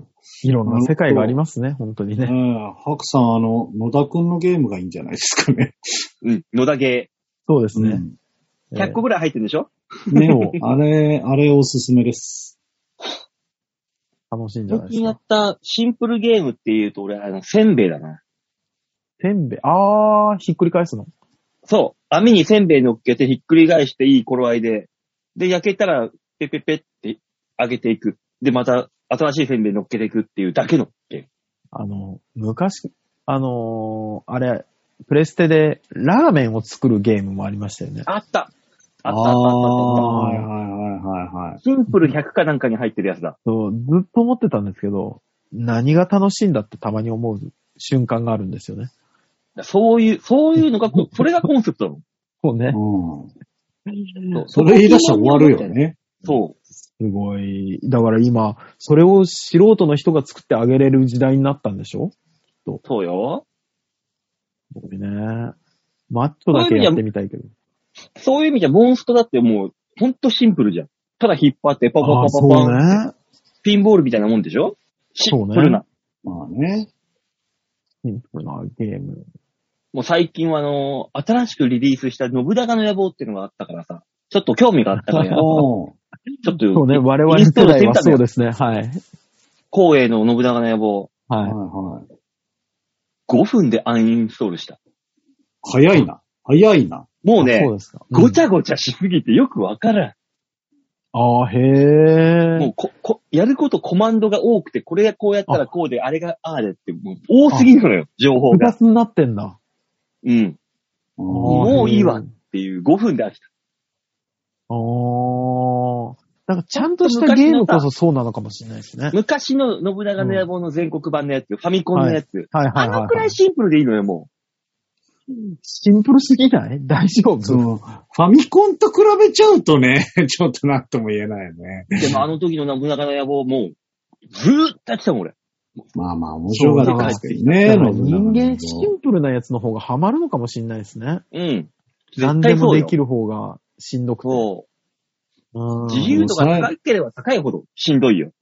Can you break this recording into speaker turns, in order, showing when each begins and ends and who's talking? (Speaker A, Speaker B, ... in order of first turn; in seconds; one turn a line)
Speaker A: 0.4-2.3
Speaker B: 0.7-1.4
Speaker B: 2.2-6.0
Speaker C: 6.2-7.1
Speaker A: 7.5-8.0
Speaker B: 7.7-8.1
Speaker A: 8.7-9.0
Speaker C: 8.7-9.7
Speaker B: 10.1-12.6
Speaker A: 10.2-10.6
Speaker A: 14.3-15.2
Speaker C: 14.7-18.2
Speaker A: 19.2-21.1
Speaker C: 21.7-31.2
Speaker A: 31.7-38.1
Speaker C: 38.1-38.5
Speaker C: 39.0-40.1
Speaker B: 39.1-41.6
Speaker A: 39.9-40.5
Speaker C: 41.6-43.3
Speaker A: 41.9-42.1
Speaker A: 43.5-48.9
Speaker C: 49.6-52.0
Speaker A: 50.6-51.5
Speaker A: 52.4-52.8
Speaker B: 52.7-53.3
Speaker A: 53.9-54.4
Speaker C: 54.3-56.5
Speaker B: 54.5-56.0
Speaker A: 57.0-62.1
Speaker C: 62.8-63.4
Speaker A: 64.7-65.5
Speaker A: 66.1-67.5
Speaker C: 66.5-67.0
Speaker C: 68.2-73.0
Speaker A: 72.0-73.1
Speaker C: 73.6-75.8
Speaker A: 75.3-75.8
Speaker B: 76.2-76.9
Speaker A: 78.0-79.2
Speaker C: 79.9-85.6
Speaker A: 85.0-85.5
Speaker B: 85.4-86.0
Speaker C: 86.4-88.2
Speaker A: 86.5-89.0
Speaker C: 89.7-91.1
Speaker A: 91.3-91.5
Speaker B: 91.4-92.0
Speaker C: 93.3-94.8
Speaker B: 95.6-97.0
Speaker C: 97.2-100.1
Speaker A: 97.4-98.4
Speaker A: 101.1-102.7
Speaker C: 102.6-108.7
Speaker A: 108.5-109.6
Speaker C: 110.2-110.6
Speaker B: 111.2-111.9
Speaker A: 111.3-112.3
Speaker C: 111.5-113.5
Speaker A: 114.7-119.2
Speaker C: 116.8-117.9
Speaker C: 119.1-124.3
Speaker A: 120.2-120.5
Speaker A: 121.9-123.3
Speaker A: 125.6-127.6
Speaker B: 127.5-132.2
Speaker C: 132.0-133.7
Speaker C: 134.3-135.8
Speaker B: 135.9-138.9
Speaker A: 136.5-141.2
Speaker C: 136.8-137.5
Speaker C: 141.3-142.9
Speaker A: 142.2-144.4
Speaker C: 144.2-144.7
Speaker A: 145.5-146.2
Speaker C: 145.9-148.3
Speaker B: 146.1-146.7